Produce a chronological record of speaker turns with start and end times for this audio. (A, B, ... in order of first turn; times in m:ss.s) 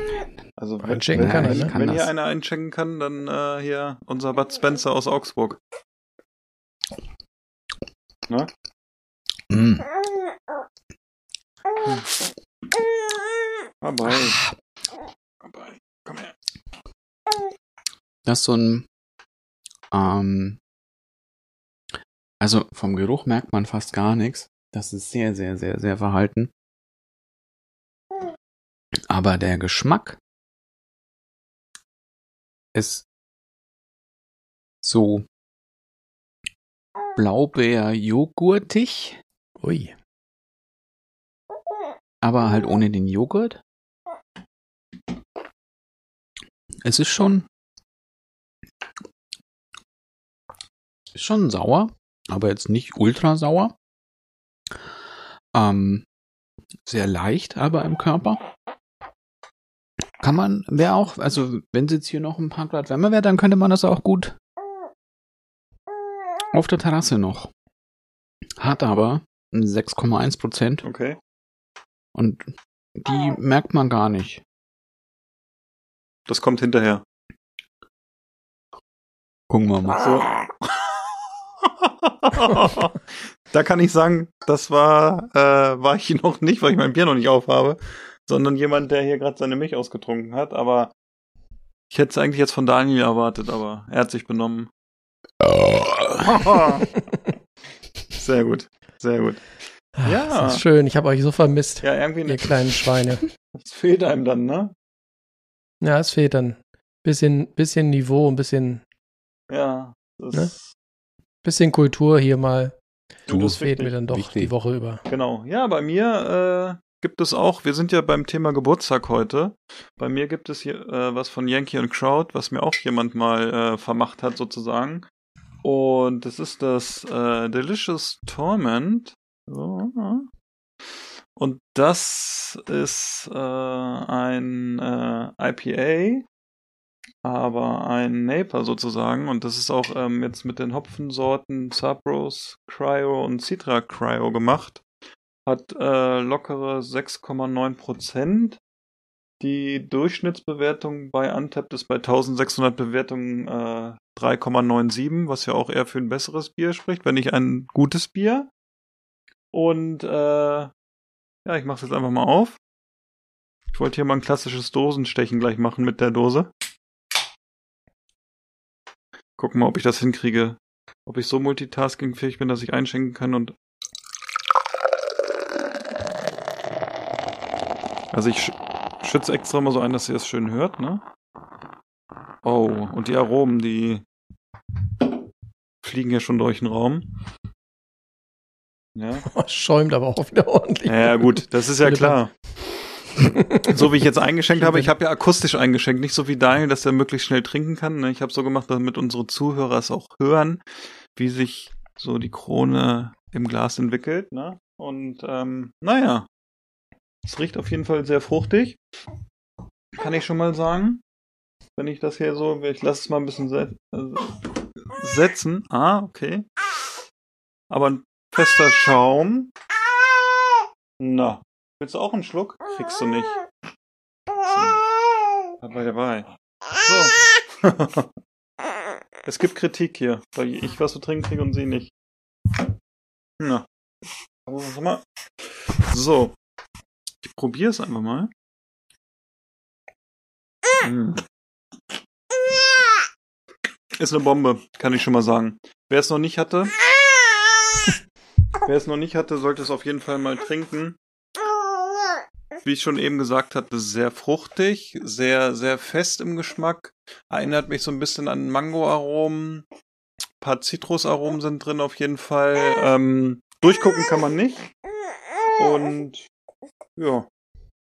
0:00.6-0:05.6 A
0:00.8-0:01.7 B
0:01.2-0:02.1 C
0:09.5-0:09.9 C
0:13.8-0:14.4 A
0:15.4-0:16.3 A
0:18.3-0:18.8 C
0:19.9-0:20.6 C
0:22.4-0:26.5 C
0:29.1-0:30.2 C
0:32.8-0:33.0 C
0:34.8-0:35.2 C
0:37.2-0:39.2 C
0:39.6-0:39.9 B
0:42.2-0:43.6 C
0:46.8-0:47.4 C
0:51.1-0:53.7 C
0:55.6-0:56.0 C
0:56.9-0:58.4 C
1:00.2-1:04.4 C
1:06.5-1:07.5 C
1:08.6-1:10.8 C
1:10.8-1:11.2 A
1:12.2-1:14.4 C
1:16.3-1:17.0 A
1:19.5-1:20.1 C
1:20.0-1:21.0 A
1:21.6-1:30.9 A
1:31.9-1:34.7 A
1:35.6-1:36.1 C
1:36.2-1:36.9 A
1:38.2-1:39.4 A
1:40.0-1:43.2 B
1:40.0-1:40.6 A
1:41.8-1:42.5 A
1:43.5-1:44.7 A
1:45.8-1:48.8 B
1:49.5-1:50.7 A
1:51.4-1:52.7 B
1:53.3-1:53.9 A
1:53.3-1:54.5 C
1:53.4-1:55.0 B
1:55.1-2:05.0 A
2:05.6-2:10.3 A
2:11.4-2:16.2 A
2:17.2-2:24.8 A
2:25.5-2:28.6 A
2:29.4-2:38.5 A
2:39.5-2:40.7 A
2:41.4-2:42.6 A
2:43.7-2:46.5 A
2:49.4-2:53.6 A
2:58.1-3:01.0 A
3:02.4-3:04.0 A
3:05.8-3:07.1 A
3:09.0-3:09.2 A
3:09.3-3:12.2 B
3:10.9-3:12.3 A
3:13.2-3:13.8 B
3:13.5-3:20.6 A
3:14.6-3:14.9 B
3:21.2-3:26.3 A
3:27.2-3:28.8 A
3:30.0-3:31.0 A
3:31.8-3:36.5 A
3:37.7-3:39.5 A
3:41.0-3:43.4 A
3:44.4-3:44.8 A
3:45.6-3:48.1 A
3:49.2-3:51.9 A
3:53.4-3:53.7 A
3:54.5-3:55.1 A
3:55.7-3:56.4 A
3:57.2-3:58.3 A
4:00.8-4:01.2 A
4:03.9-4:06.7 A
4:08.6-4:11.0 A
4:12.6-4:19.7 A
4:20.4-4:24.7 A
4:25.6-4:26.3 A
4:27.0-4:27.3 A